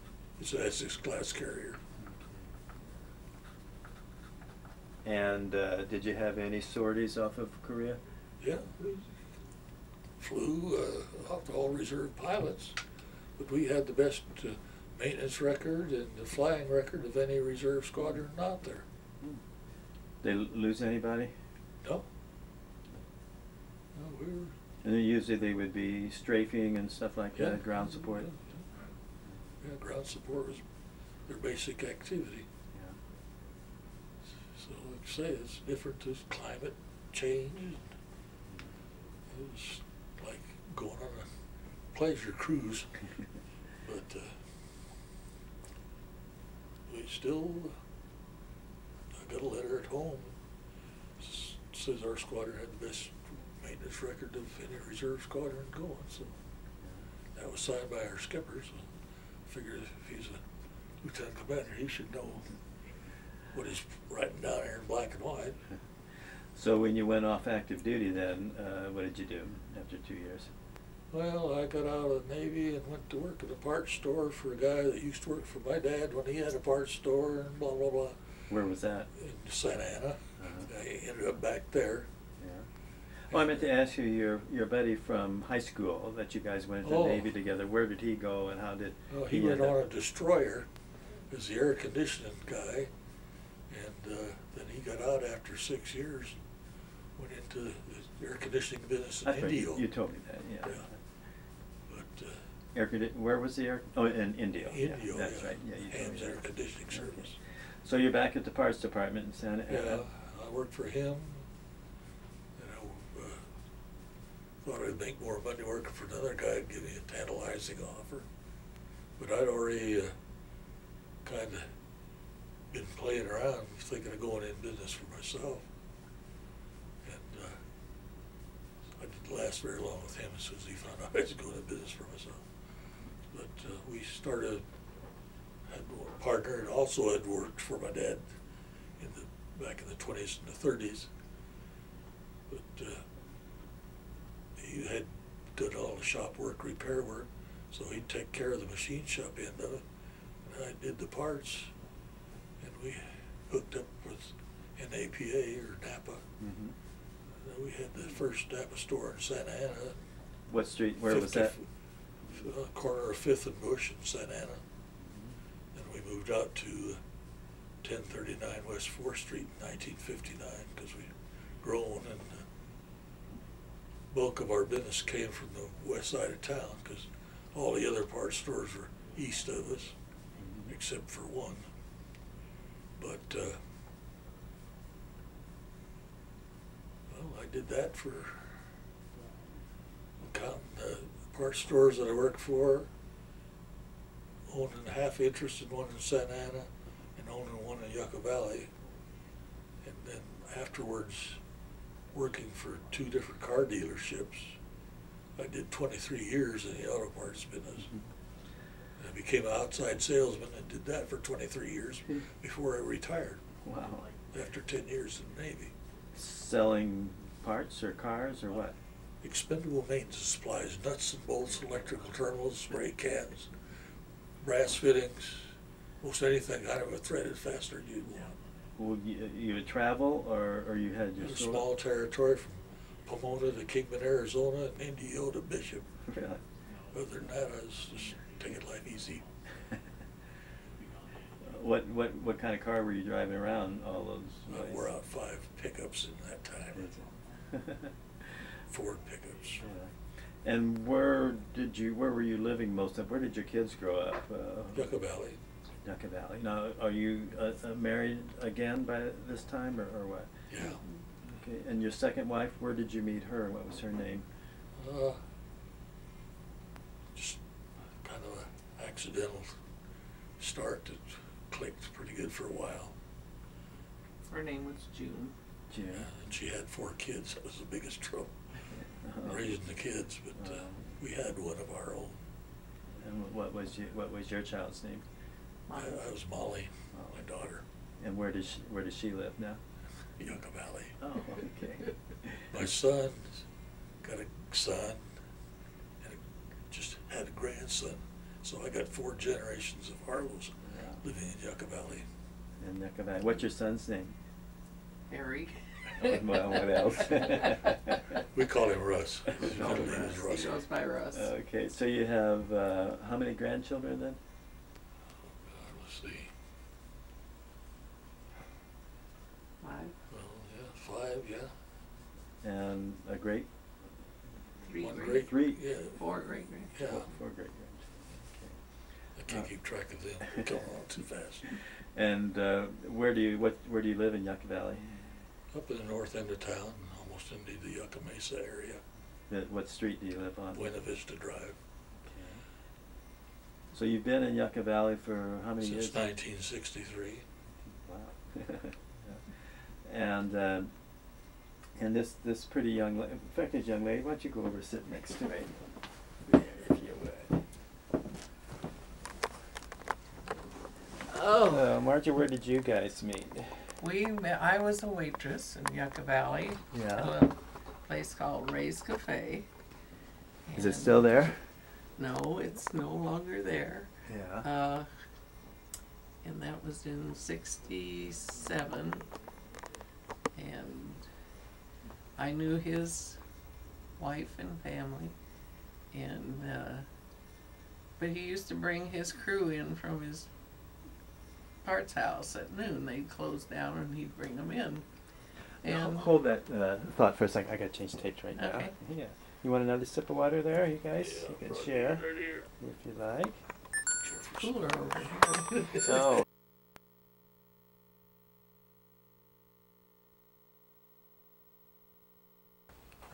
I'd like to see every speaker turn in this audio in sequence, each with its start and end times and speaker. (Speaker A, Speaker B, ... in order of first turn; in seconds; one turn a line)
Speaker A: 0.4-1.8
Speaker B: 5.0-8.0
Speaker A: 8.4-9.0
Speaker A: 10.2-12.8
Speaker A: 13.4-18.9
Speaker B: 20.2-21.3
Speaker A: 23.9-24.5
Speaker B: 24.8-28.3
Speaker A: 27.4-28.6
Speaker A: 29.6-30.6
Speaker A: 31.3-32.5
Speaker A: 34.5-37.8
Speaker A: 39.3-41.3
Speaker A: 41.9-42.9
Speaker A: 43.8-44.4
Speaker A: 46.9-47.8
Speaker A: 49.1-50.4
Speaker A: 51.2-56.4
Speaker A: 57.3-58.9
Speaker A: 59.5-60.4
Speaker A: 61.0-62.5
Speaker A: 63.5-65.6
Speaker B: 66.5-70.5
Speaker A: 71.1-78.2
Speaker B: 78.5-79.1
Speaker A: 79.1-82.1
Speaker B: 80.4-80.7
Speaker B: 82.4-82.7
Speaker B: 83.3-89.8
Speaker A: 83.3-83.6
Speaker A: 86.8-87.3
Speaker A: 89.1-90.7
Speaker A: 91.3-92.9
Speaker A: 93.7-96.4
Speaker A: 97.2-99.8
Speaker B: 99.2-101.0
Speaker A: 101.9-102.4
Speaker B: 102.7-106.4
Speaker A: 104.6-107.3
Speaker B: 106.9-107.2
Speaker B: 107.8-110.0
Speaker A: 109.7-111.5
Speaker A: 112.6-113.5
Speaker A: 114.6-118.3
Speaker A: 119.2-120.2
Speaker A: 121.2-121.7
Speaker A: 122.7-125.7
Speaker A: 127.0-127.6
Speaker A: 128.9-132.4
Speaker A: 133.3-134.6
Speaker A: 135.7-138.3
Speaker A: 139.0-141.1
Speaker A: 142.5-143.0
Speaker A: 144.6-149.8
Speaker A: 150.4-151.7
Speaker A: 152.6-156.2
Speaker B: 156.4-156.7
Speaker A: 157.4-159.9
Speaker B: 160.5-161.5
Speaker A: 161.1-161.6
Speaker A: 162.3-164.6
Speaker B: 165.0-165.3
Speaker A: 165.7-167.0
Speaker A: 167.8-172.4
Speaker A: 174.1-179.9
Speaker B: 180.4-180.7
Speaker A: 180.7-181.7
Speaker A: 183.0-183.6
Speaker A: 187.1-188.5
Speaker A: 190.2-192.9
Speaker A: 194.5-198.7
Speaker A: 199.8-201.4
Speaker A: 202.1-204.6
Speaker A: 205.3-207.9
Speaker A: 209.0-213.4
Speaker B: 213.6-214.1
Speaker A: 214.3-215.7
Speaker B: 216.1-218.7
Speaker A: 219.2-223.5
Speaker A: 224.4-228.4
Speaker B: 228.8-231.6
Speaker A: 231.2-235.9
Speaker B: 236.1-236.4
Speaker A: 236.9-239.2
Speaker B: 241.4-244.9
Speaker A: 244.5-246.9
Speaker B: 246.7-248.5
Speaker A: 248.7-249.6
Speaker B: 249.6-249.9
Speaker B: 250.4-254.9
Speaker A: 254.7-255.4
Speaker B: 255.8-260.3
Speaker A: 260.5-260.8
Speaker B: 261.3-264.2
Speaker A: 264.8-265.2
Speaker A: 267.1-267.4
Speaker A: 268.0-269.6
Speaker A: 270.4-272.9
Speaker C: 274.3-275.3
Speaker B: 275.7-276.1
Speaker A: 276.0-278.3
Speaker B: 279.0-279.5
Speaker A: 279.2-282.2
Speaker B: 280.4-280.9
Speaker B: 283.0-285.0
Speaker C: 285.7-286.0
Speaker A: 285.7-287.6
Speaker B: 286.9-287.2
Speaker B: 288.0-289.6
Speaker A: 290.2-290.9
Speaker B: 291.0-292.5
Speaker A: 292.5-293.4
Speaker A: 294.0-295.1
Speaker A: 296.0-302.1
Speaker B: 300.6-301.0
Speaker B: 302.6-304.1
Speaker C: 305.1-306.2
Speaker B: 305.9-308.2
Speaker C: 307.1-307.4
Speaker A: 308.2-310.6
Speaker B: 309.3-310.1
Speaker C: 309.5-311.3
Speaker B: 311.1-314.2
Speaker A: 315.4-316.3
Speaker C: 319.6-319.9
Speaker A: 320.1-321.5
Speaker B: 322.4-323.5
Speaker C: 324.6-326.7
Speaker A: 324.7-326.0
Speaker B: 325.2-325.6
Speaker A: 326.7-327.1
Speaker B: 326.8-328.6
Speaker A: 329.1-331.4
Speaker B: 331.9-335.1
Speaker A: 335.5-338.8
Speaker B: 339.3-340.7
Speaker A: 340.5-341.6
Speaker B: 342.1-342.4
Speaker B: 343.7-346.1
Speaker A: 345.6-347.2
Speaker B: 347.7-349.2
Speaker B: 349.8-350.7
Speaker B: 351.8-355.6
Speaker B: 356.2-357.4
Speaker C: 361.1-361.6
Speaker B: 361.2-363.6
Speaker C: 363.8-369.5
Speaker B: 366.7-367.1
Speaker C: 370.5-371.0
Speaker B: 370.6-371.4
Speaker C: 372.0-373.9
Speaker B: 374.1-374.5
Speaker C: 374.4-374.9
Speaker C: 376.2-379.1
Speaker C: 380.4-381.0
Speaker C: 382.2-383.2
Speaker C: 384.0-385.1
Speaker C: 385.9-386.8
Speaker C: 388.0-390.3
Speaker C: 391.6-394.8
Speaker C: 395.6-396.1
Speaker B: 395.6-403.4
Speaker C: 398.4-398.7
Speaker A: 401.0-402.5
Speaker A: 404.0-404.5
Speaker C: 404.4-406.1
Speaker B: 405.9-406.2